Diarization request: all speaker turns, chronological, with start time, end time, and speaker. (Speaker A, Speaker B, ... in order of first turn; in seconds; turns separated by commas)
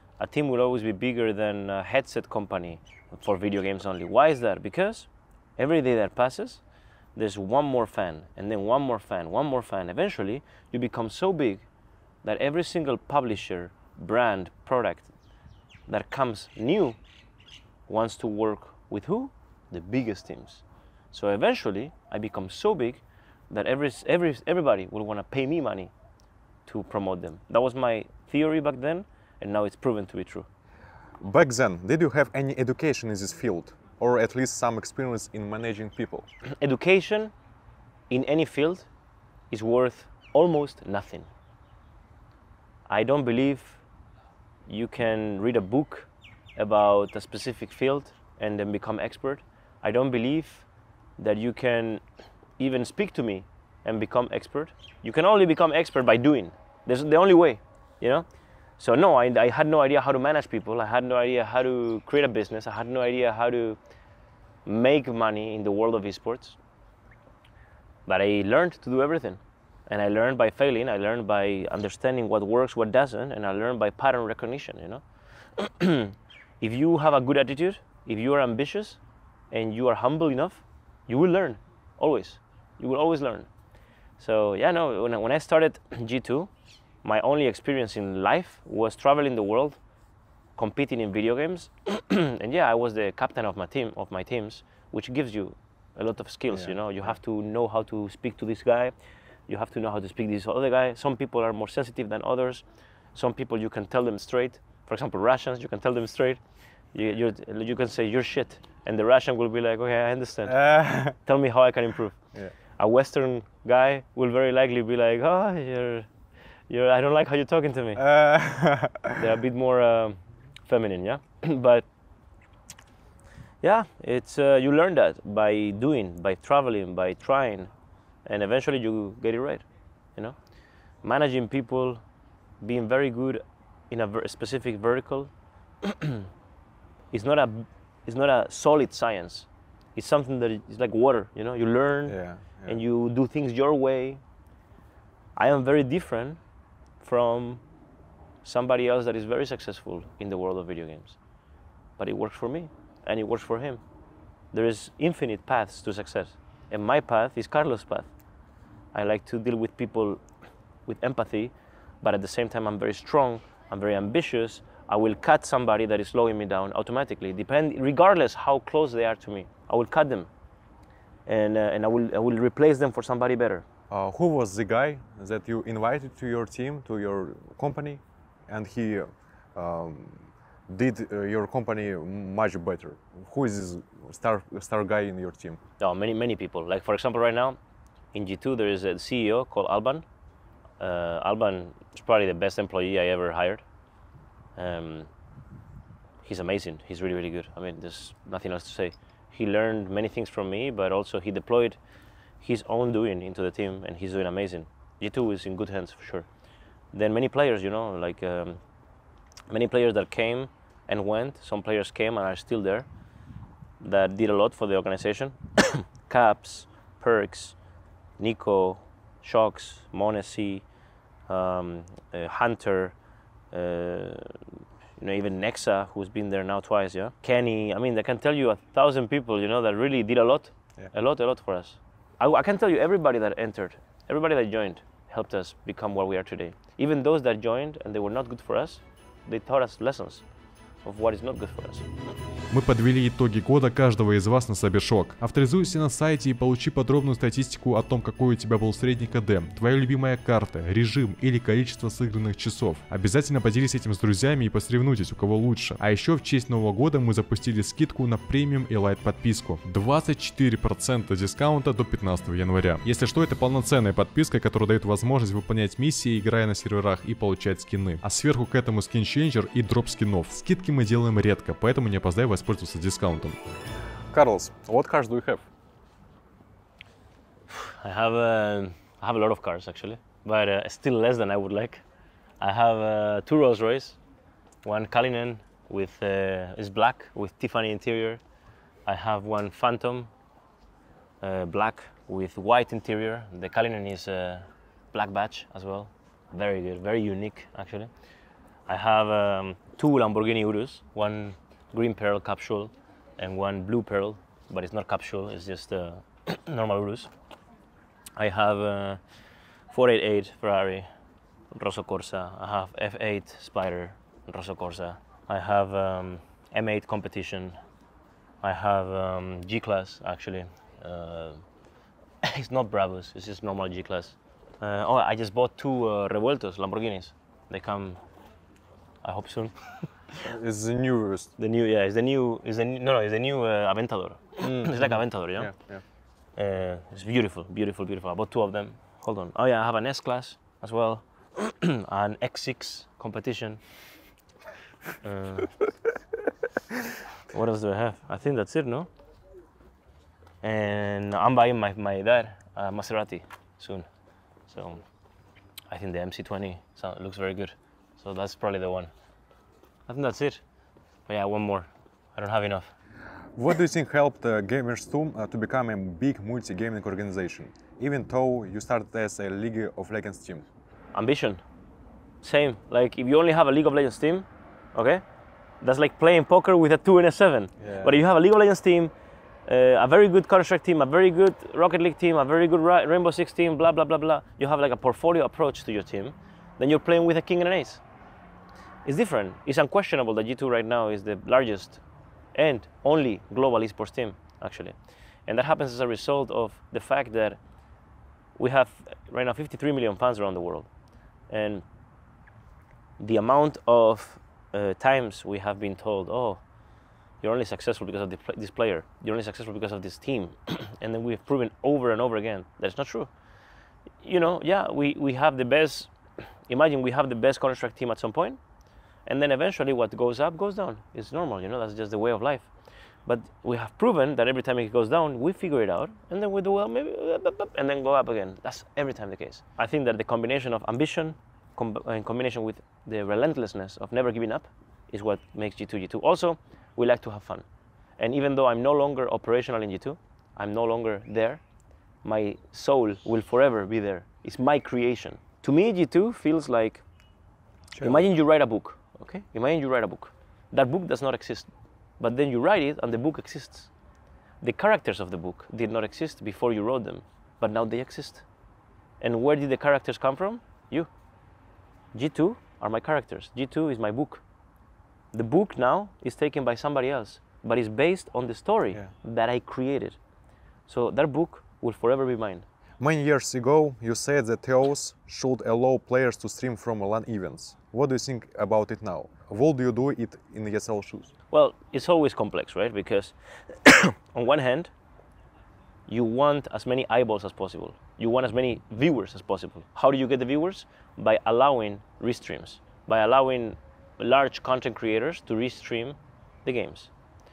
Speaker A: 0.2-6.6, Speaker A: 7.2-11.7, Speaker A: 12.2-15.1, Speaker A: 15.9-17.0, Speaker A: 17.9-25.9, Speaker A: 26.7-30.5, Speaker B: 31.2-36.3, Speaker A: 36.6-37.3, Speaker A: 38.1-38.9, Speaker A: 39.5-41.3, Speaker A: 42.9-43.8, Speaker A: 44.7-50.7, Speaker A: 51.2-52.0, Speaker A: 52.6-58.3, Speaker A: 58.8-63.8, Speaker A: 64.7-66.6, Speaker A: 68.1-75.0, Speaker A: 75.6-79.0, Speaker A: 79.5-83.5, Speaker A: 84.2-86.5, Speaker A: 87.0-89.8, Speaker A: 90.6-98.9, Speaker A: 99.5-106.4, Speaker A: 106.9-112.2, Speaker B: 110.5-111.2, Speaker A: 112.8-116.1, Speaker A: 116.7-118.0, Speaker B: 118.0-119.2, Speaker A: 119.2-121.8, Speaker A: 123.6-127.7, Speaker A: 128.2-129.7, Speaker A: 131.0-132.0, Speaker A: 132.6-135.3, Speaker A: 135.8-136.3, Speaker A: 137.1-144.2, Speaker B: 142.1-142.8, Speaker A: 145.4-146.4, Speaker A: 147.0-147.6, Speaker A: 148.4-151.2, Speaker A: 152.0-153.8, Speaker A: 154.5-158.1, Speaker A: 158.9-160.2, Speaker A: 160.9-170.3, Speaker A: 171.3-173.7, Speaker B: 173.9-185.6, Speaker A: 185.8-187.6, Speaker A: 188.1-190.1, Speaker A: 190.8-193.6, Speaker A: 194.6-195.1, Speaker A: 196.2-201.8, Speaker A: 202.4-206.3, Speaker A: 206.9-208.6, Speaker A: 209.5-212.9, Speaker A: 213.8-217.6, Speaker A: 218.2-220.7, Speaker A: 221.3-222.9, Speaker A: 223.5-224.4, Speaker A: 225.0-240.2, Speaker A: 240.8-241.9, Speaker C: 242.5-273.4, Speaker B: 274.1-275.4, Speaker A: 277.5-281.8, Speaker A: 282.4-284.0, Speaker A: 284.6-288.2, Speaker A: 288.9-290.1, Speaker A: 291.2-297.9, Speaker A: 298.7-307.1, Speaker A: 308.2-309.0, Speaker A: 309.7-310.9, Speaker A: 311.5-317.6, Speaker A: 318.4-321.4, Speaker A: 322.2-328.0, Speaker A: 329.0-329.9, Speaker B: 330.2-331.3, Speaker A: 331.4-335.5, Speaker B: 334.4-335.8, Speaker A: 336.4-343.6, Speaker A: 345.0-345.6, Speaker A: 347.3-348.9, Speaker A: 350.4-353.9, Speaker A: 354.5-354.8, Speaker A: 355.7-358.9, Speaker A: 359.9-360.4, Speaker A: 361.1-362.7, Speaker B: 363.4-370.4, Speaker A: 370.9-371.4, Speaker A: 372.2-375.0, Speaker A: 375.6-378.9, Speaker B: 377.6-377.9, Speaker A: 379.5-387.8, Speaker A: 388.9-391.8, Speaker A: 392.3-394.8, Speaker A: 395.3-397.4, Speaker A: 398.4-400.7, Speaker A: 401.3-401.6, Speaker A: 403.0-406.4, Speaker A: 407.2-413.1, Speaker A: 414.0-415.9, Speaker A: 416.5-418.4, Speaker A: 419.1-422.5, Speaker A: 423.1-437.4, Speaker A: 438.0-441.4, Speaker A: 442.0-446.8, Speaker A: 447.8-453.7, Speaker A: 454.4-458.2, Speaker A: 459.0-460.9, Speaker A: 461.9-464.2, Speaker A: 465.1-470.0, Speaker A: 470.7-472.4, Speaker B: 472.8-481.1, Speaker A: 481.3-484.7, Speaker A: 485.9-496.9